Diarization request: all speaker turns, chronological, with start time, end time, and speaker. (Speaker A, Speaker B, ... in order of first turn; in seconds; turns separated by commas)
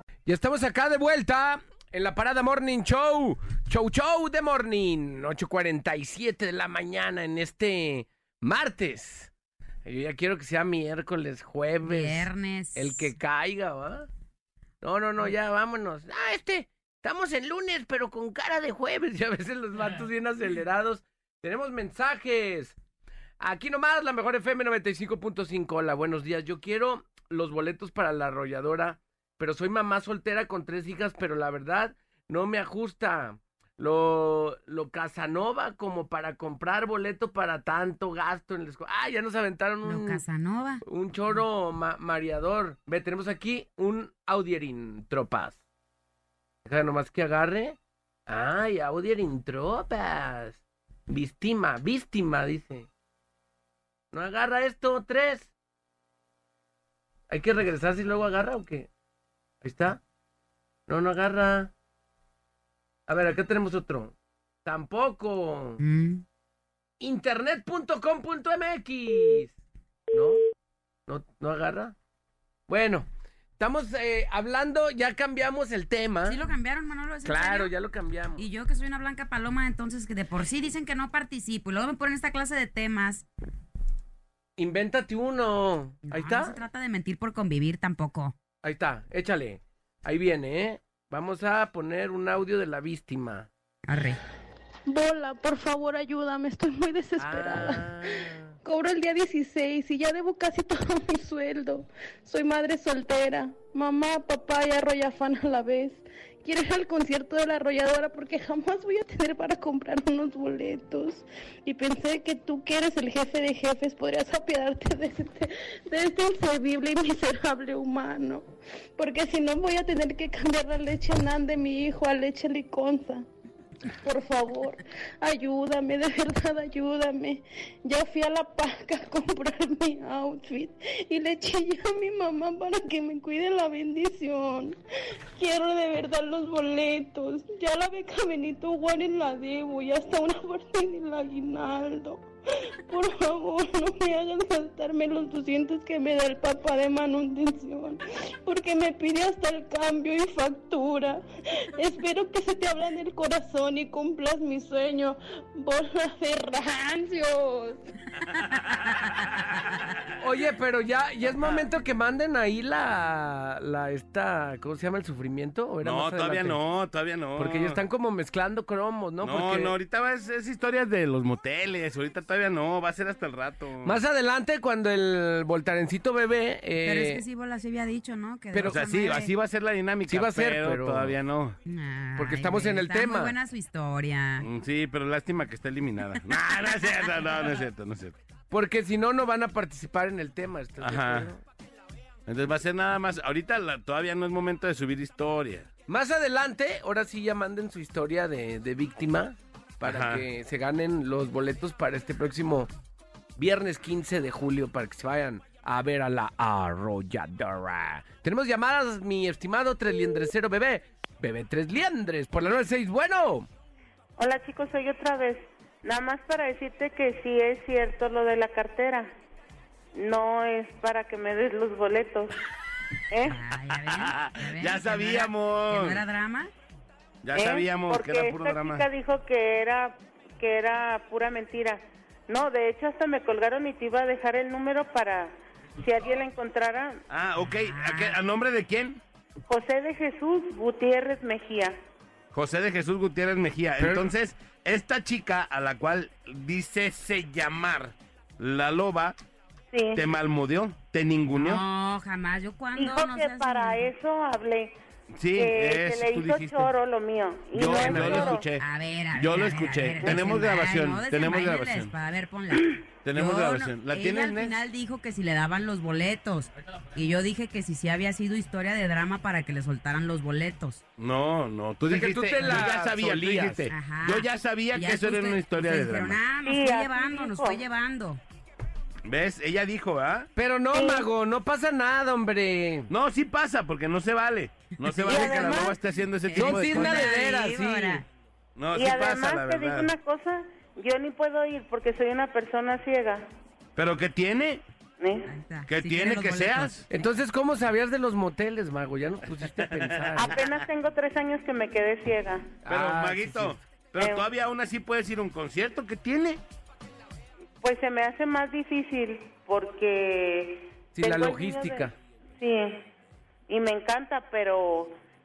Speaker A: 0.2-9.3, Speaker A: 9.8-14.1, Speaker B: 11.8-13.1, Speaker A: 14.8-22.8, Speaker A: 23.4-40.2, Speaker B: 39.8-40.8, Speaker A: 40.8-45.6, Speaker A: 46.6-52.9, Speaker A: 54.1-55.5, Speaker A: 57.3-58.9, Speaker A: 59.6-60.0, Speaker A: 60.9-61.7, Speaker A: 63.1-64.1, Speaker A: 64.6-65.8, Speaker B: 65.8-66.2, Speaker A: 67.0-69.5, Speaker A: 70.1-70.4, Speaker A: 71.1-71.9, Speaker A: 72.7-73.1, Speaker A: 73.6-76.5, Speaker B: 76.2-77.7, Speaker A: 77.2-78.5, Speaker B: 78.4-83.2, Speaker A: 84.6-86.6, Speaker B: 86.1-88.3, Speaker A: 88.6-93.5, Speaker B: 93.8-94.2, Speaker C: 94.9-118.5, Speaker A: 97.2-98.5, Speaker C: 119.0-123.2, Speaker C: 124.0-134.8, Speaker C: 135.3-142.2, Speaker C: 142.8-151.2, Speaker C: 151.8-157.8, Speaker A: 160.2-166.6, Speaker D: 165.8-167.8, Speaker A: 167.4-169.7, Speaker D: 169.2-174.0, Speaker A: 173.8-177.2, Speaker B: 176.8-179.3, Speaker A: 178.5-178.8, Speaker D: 178.6-181.6, Speaker A: 180.1-181.2, Speaker B: 181.6-184.5, Speaker A: 182.2-183.3, Speaker D: 184.4-188.1, Speaker A: 188.5-191.4, Speaker D: 190.8-191.3, Speaker D: 192.3-195.7, Speaker A: 195.9-202.7, Speaker D: 199.8-200.2, Speaker A: 203.4-213.5, Speaker E: 214.2-219.1, Speaker E: 219.9-222.3, Speaker E: 223.1-223.4, Speaker B: 223.2-226.5, Speaker D: 223.9-226.0, Speaker D: 227.2-228.8, Speaker E: 227.3-237.0, Speaker D: 237.1-239.0, Speaker B: 237.6-238.2, Speaker E: 239.5-241.8, Speaker D: 242.3-249.2, Speaker A: 243.8-244.1, Speaker E: 249.7-250.1, Speaker D: 249.9-251.6, Speaker B: 251.3-253.9, Speaker E: 252.7-254.8, Speaker D: 255.2-256.7, Speaker E: 255.3-258.5, Speaker D: 257.5-261.9, Speaker B: 258.6-270.8, Speaker E: 260.0-260.3, Speaker D: 263.0-264.6, Speaker D: 271.0-276.3, Speaker A: 271.9-273.7, Speaker B: 273.7-278.2, Speaker E: 276.4-277.6, Speaker D: 279.0-280.3, Speaker A: 280.4-282.9, Speaker E: 280.7-281.1, Speaker D: 282.9-287.1, Speaker E: 285.0-285.8, Speaker B: 285.1-285.7, Speaker B: 286.3-288.0, Speaker A: 286.3-288.0, Speaker D: 288.6-289.9, Speaker E: 288.7-293.2, Speaker D: 293.8-294.6, Speaker E: 295.0-295.3, Speaker B: 295.3-296.8, Speaker D: 295.7-296.8, Speaker A: 296.9-300.4, Speaker D: 299.8-300.1, Speaker E: 300.1-302.6, Speaker A: 302.6-303.6, Speaker D: 302.6-306.4, Speaker E: 304.0-304.3, Speaker E: 307.6-312.9, Speaker A: 310.9-311.9, Speaker E: 313.5-315.0